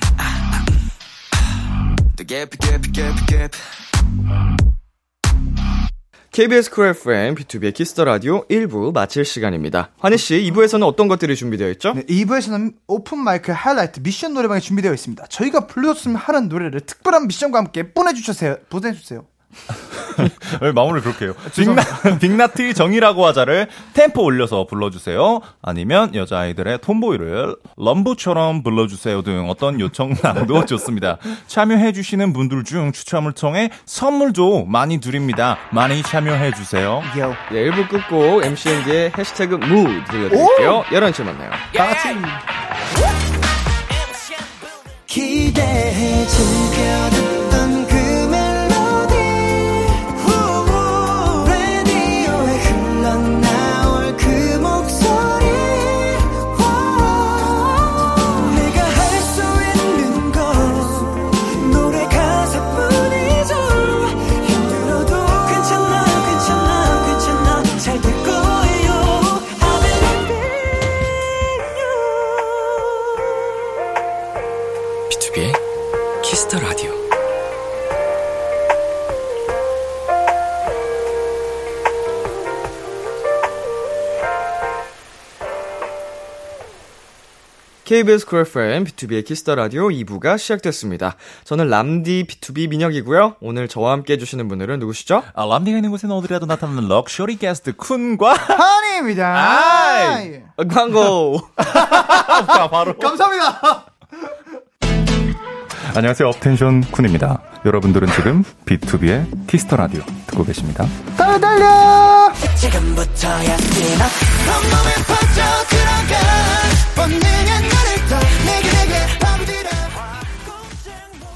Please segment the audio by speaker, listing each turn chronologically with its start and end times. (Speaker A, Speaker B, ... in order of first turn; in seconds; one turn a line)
Speaker A: 2.1-3.6
Speaker B: 6.3-12.0
Speaker C: 11.9-19.3
Speaker D: 20.4-37.0
Speaker C: 21.4-22.2
Speaker C: 37.0-37.4
Speaker B: 37.5-41.6
Speaker C: 40.3-40.8
Speaker C: 41.7-42.4
Speaker A: 45.1-70.5
Speaker B: 76.5-76.8
Speaker B: 87.8-95.3
Speaker D: 95.3-98.5
Speaker C: 98.5-100.5
Speaker D: 99.3-100.2
Speaker B: 100.6-101.7
Speaker C: 101.6-103.8
Speaker D: 102.1-103.1
Speaker D: 105.9-110.9
Speaker C: 111.2-112.3
Speaker A: 112.5-120.6